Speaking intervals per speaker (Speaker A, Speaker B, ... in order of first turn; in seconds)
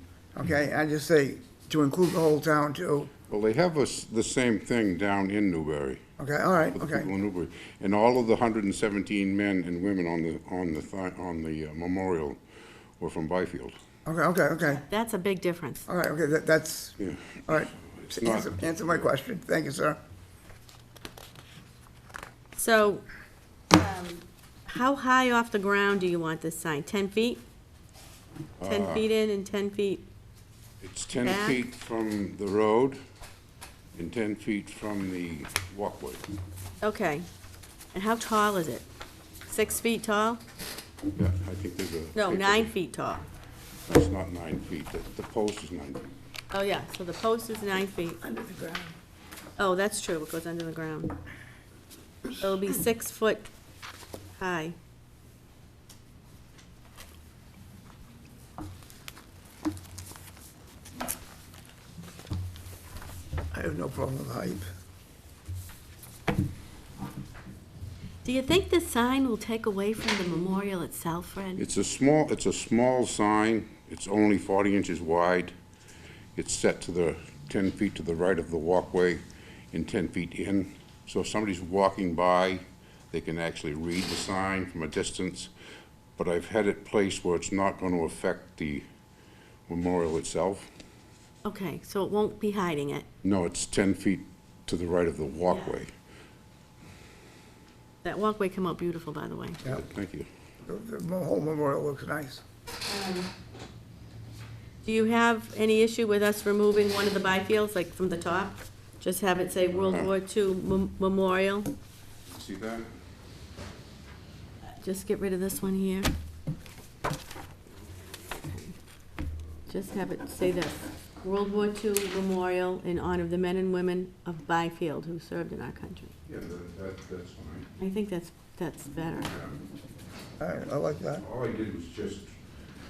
Speaker A: 0.3-3.1, 6.2-7.1, 14.1-14.8, 15.9-20.0, 48.2-48.9, 63.5-64.7, 100.7-102.4, 130.4-131.2
Speaker B: 3.3-6.0, 6.7-12.4, 13.0-13.8, 17.0-18.6, 28.6-29.0, 30.8-33.0, 34.0-36.2, 41.1-42.7, 43.9-46.1, 71.6-75.5, 76.4-85.5, 86.2-88.8, 89.7-90.7, 93.2-95.9, 99.7-100.3, 109.8-110.1, 112.3-112.9, 126.3-127.7, 131.2-132.3
Speaker C: 14.9-15.9, 22.6-23.0, 23.7-27.4, 28.6-30.0, 31.2-31.6, 36.8-37.3, 37.9-38.9, 39.5-40.4, 42.1-43.3, 46.5-48.2, 49.6-51.2, 52.3-53.5, 54.4-54.8, 68.2-71.6, 91.5-93.1, 95.5-95.7, 98.0-99.6, 102.9-103.3, 104.8-111.7, 114.8-116.1, 118.3-118.8, 119.7-126.1, 127.8-129.3